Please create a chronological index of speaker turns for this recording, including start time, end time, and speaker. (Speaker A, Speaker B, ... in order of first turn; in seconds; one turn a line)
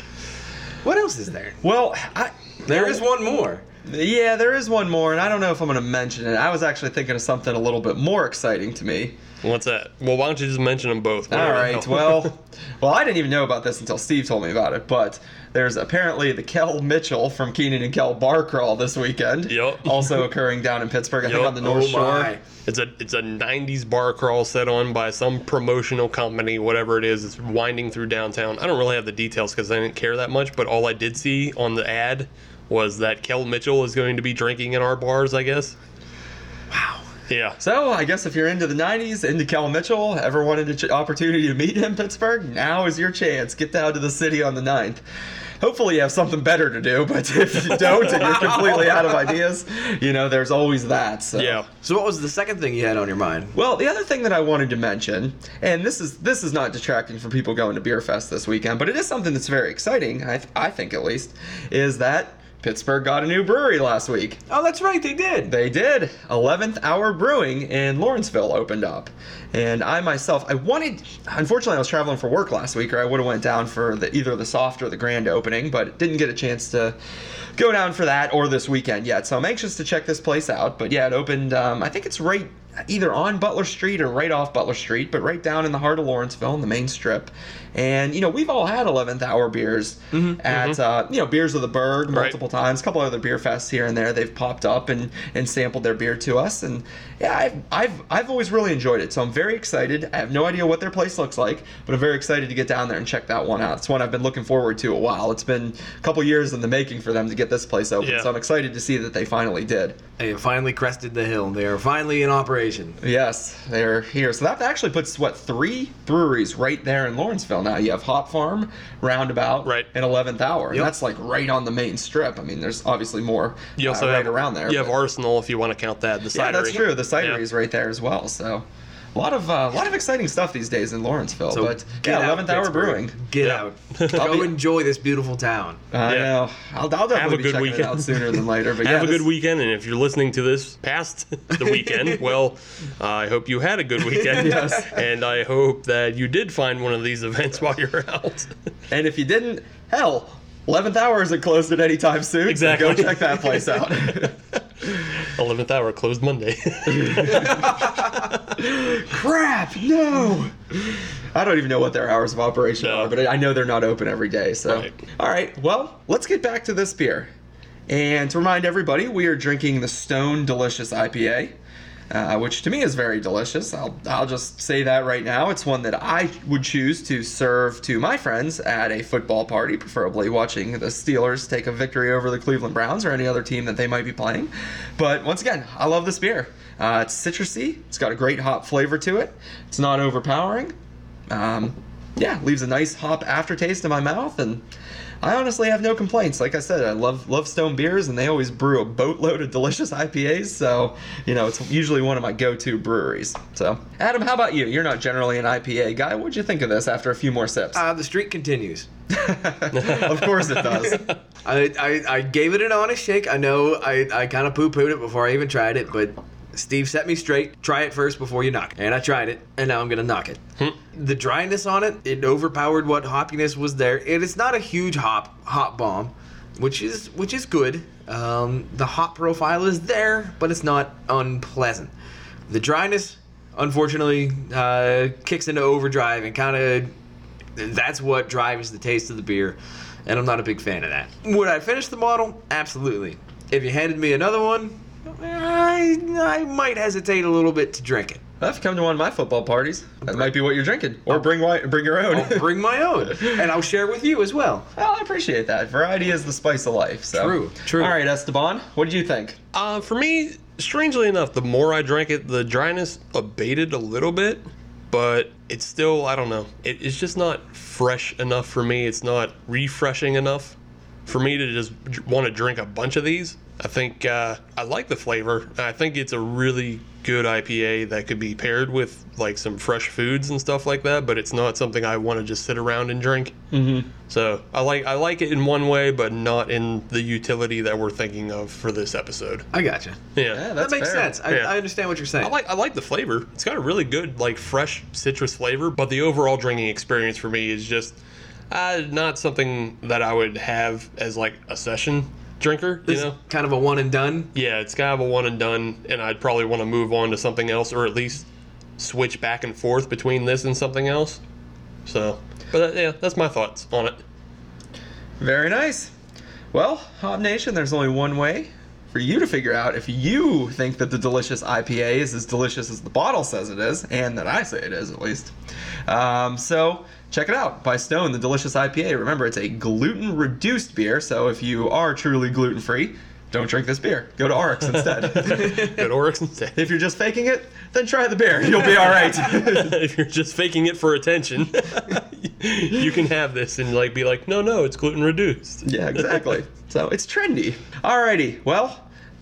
Speaker A: 0.8-1.6
Speaker B: 1.6-3.0
Speaker A: 2.6-3.6
Speaker B: 3.8-9.2
Speaker C: 9.4-12.3
Speaker B: 11.3-22.3
Speaker C: 19.5-20.3
Speaker C: 21.2-21.6
Speaker A: 21.6-22.4
Speaker C: 22.6-35.7
Speaker A: 36.7-37.0
Speaker C: 37.3-37.6
Speaker B: 37.6-45.0
Speaker B: 45.6-51.6
Speaker C: 47.8-48.5
Speaker A: 47.8-49.3
Speaker C: 51.3-51.7
Speaker A: 51.8-53.5
Speaker B: 53.5-64.4
Speaker A: 64.5-65.5
Speaker B: 65.5-77.0
Speaker B: 77.5-110.0
Speaker A: 90.1-90.4
Speaker C: 90.5-90.8
Speaker C: 92.1-92.3
Speaker C: 108.0-108.3
Speaker A: 110.2-113.0
Speaker B: 113.0-124.9
Speaker C: 123.8-127.4
Speaker B: 126.3-133.2
Speaker A: 131.5-135.8
Speaker C: 133.4-134.3
Speaker B: 134.1-134.5
Speaker B: 135.9-139.3
Speaker C: 136.1-136.3
Speaker C: 137.1-148.5
Speaker A: 141.5-142.2
Speaker A: 144.2-144.8
Speaker B: 144.3-145.0
Speaker B: 148.9-154.4
Speaker C: 152.5-153.7
Speaker C: 154.9-158.3
Speaker B: 156.9-167.3
Speaker C: 162.8-163.1
Speaker C: 164.7-164.9
Speaker B: 167.9-171.5
Speaker B: 172.1-190.7
Speaker B: 191.3-194.6
Speaker B: 195.2-207.8
Speaker A: 207.7-208.9
Speaker B: 209.1-211.1
Speaker C: 209.7-211.2
Speaker A: 210.6-231.9
Speaker A: 232.5-236.9
Speaker A: 237.6-248.2
Speaker B: 248.4-252.5
Speaker A: 252.1-254.7
Speaker B: 254.8-259.4
Speaker A: 257.1-257.9
Speaker C: 259.5-283.3
Speaker B: 283.5-283.9
Speaker C: 284.1-289.5
Speaker A: 289.5-290.0
Speaker C: 290.1-290.5
Speaker B: 290.3-291.2
Speaker A: 290.6-292.3
Speaker C: 292.2-298.0
Speaker C: 298.5-303.1
Speaker A: 302.9-304.3
Speaker C: 304.3-308.2
Speaker C: 308.8-311.2
Speaker C: 311.9-314.0
Speaker B: 315.2-315.9
Speaker B: 316.5-325.3
Speaker B: 325.9-335.9
Speaker C: 334.8-336.7
Speaker B: 336.6-339.8
Speaker C: 338.7-346.2
Speaker B: 345.6-348.9